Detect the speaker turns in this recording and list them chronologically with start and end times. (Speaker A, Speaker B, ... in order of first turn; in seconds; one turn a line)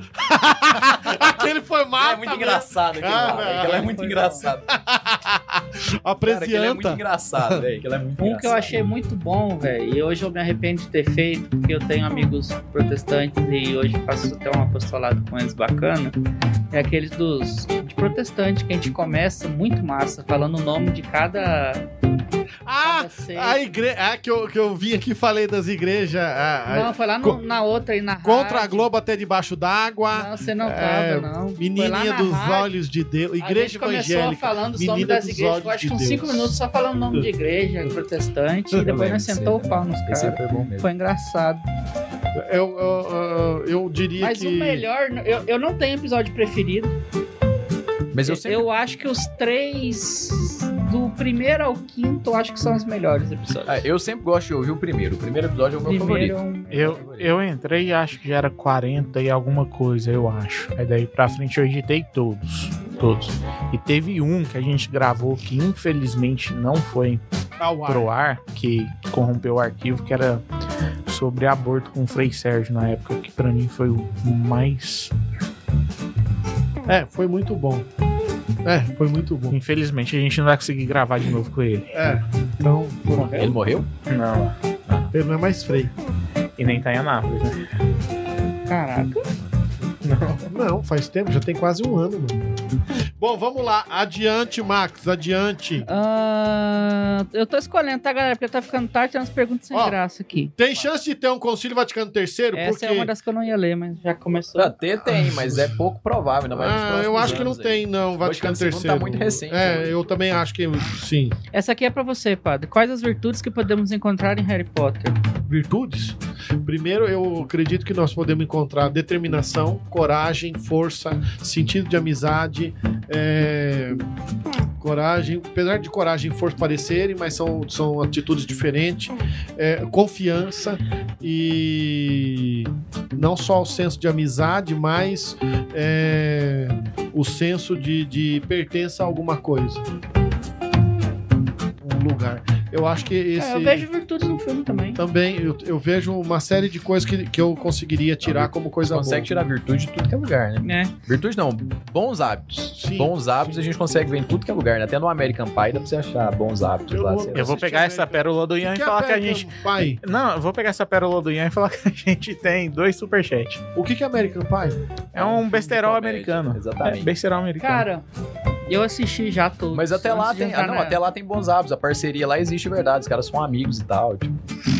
Speaker A: 0.2-3.9
Speaker B: 1.0-1.4
Speaker B: 2.0-4.7
Speaker C: 3.1-4.5
Speaker A: 4.7-7.7
Speaker B: 6.2-8.8
Speaker C: 8.2-16.1
Speaker C: 16.7-21.9
Speaker A: 22.7-27.4
Speaker C: 22.8-23.6
Speaker C: 26.7-28.9
Speaker A: 28.2-36.6
Speaker C: 30.1-32.7
Speaker C: 33.4-41.6
Speaker B: 38.8-40.9
Speaker A: 42.4-44.9
Speaker C: 44.2-47.0
Speaker B: 48.1-48.7
Speaker C: 48.2-53.9
Speaker B: 53.7-57.3
Speaker C: 55.9-57.0
Speaker D: 56.7-67.2
Speaker A: 67.6-68.1
Speaker D: 67.9-70.4
Speaker D: 71.1-75.1
Speaker A: 76.9-77.9
Speaker A: 78.7-79.6
Speaker D: 79.5-82.0
Speaker A: 81.9-83.5
Speaker C: 83.2-83.5
Speaker B: 83.4-83.9
Speaker D: 84.1-84.5
Speaker A: 85.1-85.9
Speaker D: 86.6-87.6
Speaker C: 88.7-89.3
Speaker D: 90.0-90.5
Speaker A: 90.5-92.4
Speaker A: 93.2-95.9
Speaker C: 95.8-100.5
Speaker A: 99.7-100.0
Speaker A: 100.6-103.1
Speaker C: 102.5-104.8
Speaker B: 104.6-110.0
Speaker A: 105.0-105.7
Speaker A: 106.5-111.4
Speaker C: 111.5-115.2
Speaker A: 115.5-124.0
Speaker A: 124.8-139.9
Speaker A: 141.8-143.9
Speaker C: 143.4-145.0
Speaker A: 145.0-149.3
Speaker B: 148.2-157.6
Speaker C: 150.6-150.9
Speaker A: 152.8-153.2
Speaker A: 156.9-160.0
Speaker D: 157.3-159.5
Speaker D: 160.0-163.6
Speaker A: 163.8-164.8
Speaker D: 165.1-167.9
Speaker B: 165.2-167.1
Speaker C: 167.6-168.1
Speaker C: 168.7-171.0
Speaker B: 169.7-174.3